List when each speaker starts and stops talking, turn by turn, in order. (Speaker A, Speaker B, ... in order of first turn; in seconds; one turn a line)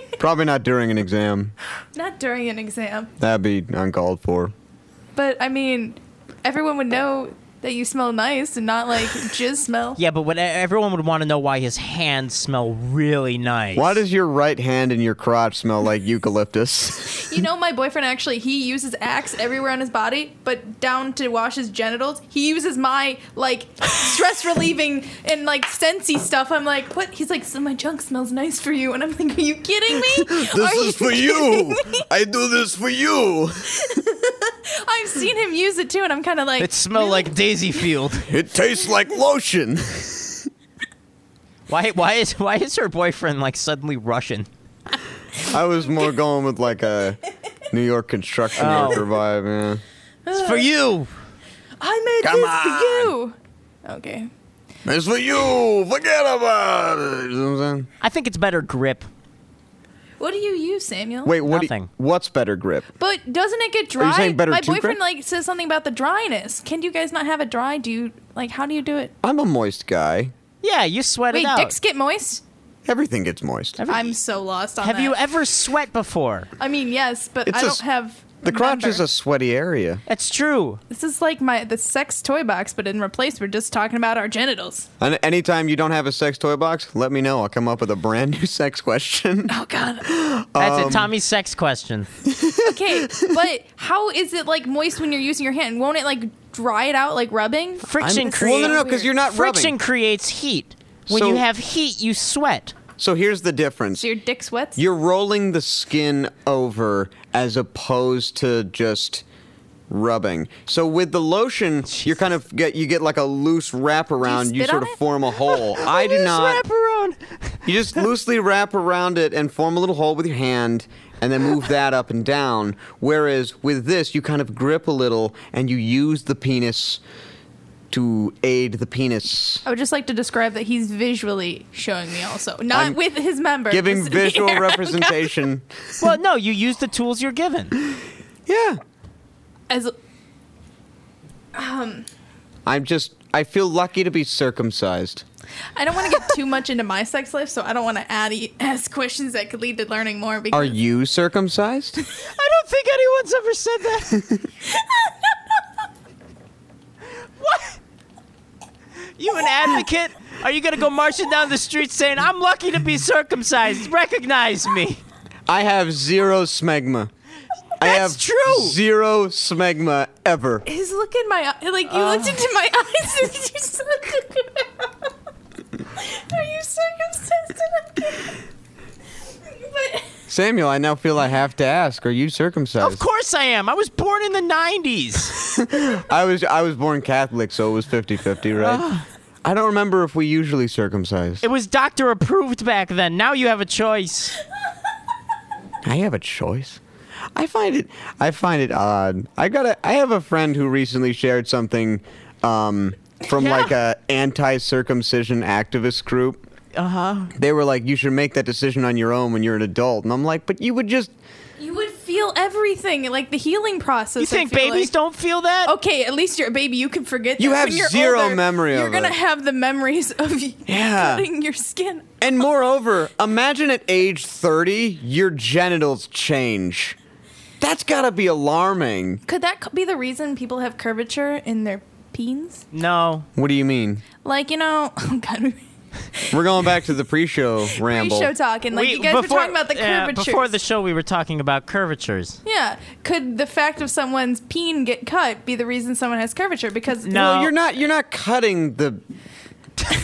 Speaker A: 0.2-1.5
Speaker B: 1.9-3.1
Speaker A: 3.2-4.5
Speaker B: 5.1-10.0
Speaker C: 10.0-13.9
Speaker A: 13.7-17.4
Speaker B: 17.1-32.0
Speaker A: 29.9-33.9
Speaker B: 33.8-37.3
Speaker C: 36.6-38.3
Speaker A: 38.3-40.5
Speaker C: 41.7-44.5
Speaker A: 45.5-47.2
Speaker A: 47.7-49.8
Speaker C: 48.6-49.0
Speaker B: 50.3-50.6
Speaker C: 50.3-51.1
Speaker B: 51.8-54.3
Speaker A: 52.2-53.1
Speaker A: 54.8-57.9
Speaker C: 58.0-59.1
Speaker B: 60.2-61.3
Speaker A: 61.2-62.9
Speaker C: 61.5-61.9
Speaker B: 63.0-69.1
Speaker A: 64.0-65.0
Speaker A: 69.2-70.3
Speaker C: 70.6-71.7
Speaker B: 71.3-72.4
Speaker A: 72.8-73.8
Speaker C: 73.8-74.1
Speaker B: 73.9-75.2
Speaker C: 74.8-76.5
Speaker B: 76.6-79.0
Speaker A: 77.5-77.8
Speaker A: 78.4-80.0
Speaker C: 80.1-80.8
Speaker B: 80.9-84.9
Speaker A: 85.0-89.5
Speaker B: 89.5-90.1
Speaker A: 90.0-91.1
Speaker C: 90.6-92.1
Speaker A: 92.3-93.3
Speaker B: 92.6-99.1
Speaker C: 97.9-102.7
Speaker A: 98.0-99.8
Speaker A: 101.1-101.5
Speaker A: 103.0-104.0
Speaker B: 103.9-104.8
Speaker A: 104.8-109.2
Speaker A: 109.9-116.6
Speaker B: 114.2-115.0
Speaker C: 115.8-117.6
Speaker A: 117.6-127.0
Speaker A: 127.9-129.6
Speaker B: 129.6-135.3
Speaker A: 132.7-133.0
Speaker A: 133.7-135.9
Speaker C: 136.0-137.7
Speaker A: 138.5-138.8
Speaker B: 141.6-142.1
Speaker A: 142.7-145.2
Speaker B: 145.8-150.7
Speaker A: 150.5-152.0
Speaker C: 152.4-154.1
Speaker C: 157.4-157.7
Speaker C: 159.2-165.0
Speaker A: 165.5-167.1
Speaker A: 167.8-170.6
Speaker C: 167.8-168.8
Speaker B: 170.7-174.9
Speaker C: 171.9-172.4
Speaker B: 176.0-178.4
Speaker B: 179.6-180.0
Speaker A: 180.3-183.0
Speaker C: 182.8-185.4
Speaker A: 185.5-188.9
Speaker C: 188.6-189.1
Speaker A: 189.4-191.4
Speaker C: 191.4-194.4
Speaker A: 195.8-196.8
Speaker A: 197.3-206.4
Speaker C: 206.7-207.3
Speaker A: 207.4-211.1
Speaker B: 211.6-214.9
Speaker C: 214.2-215.7
Speaker B: 215.6-222.1
Speaker A: 217.4-219.1
Speaker A: 220.7-221.3
Speaker A: 222.2-226.9
Speaker A: 227.6-229.2
Speaker B: 229.3-232.6
Speaker C: 232.7-233.3
Speaker A: 233.4-234.0
Speaker B: 234.2-236.3
Speaker A: 236.3-238.3
Speaker B: 237.8-240.5
Speaker C: 238.7-242.4
Speaker B: 242.4-247.1
Speaker C: 247.1-247.5
Speaker A: 247.1-249.0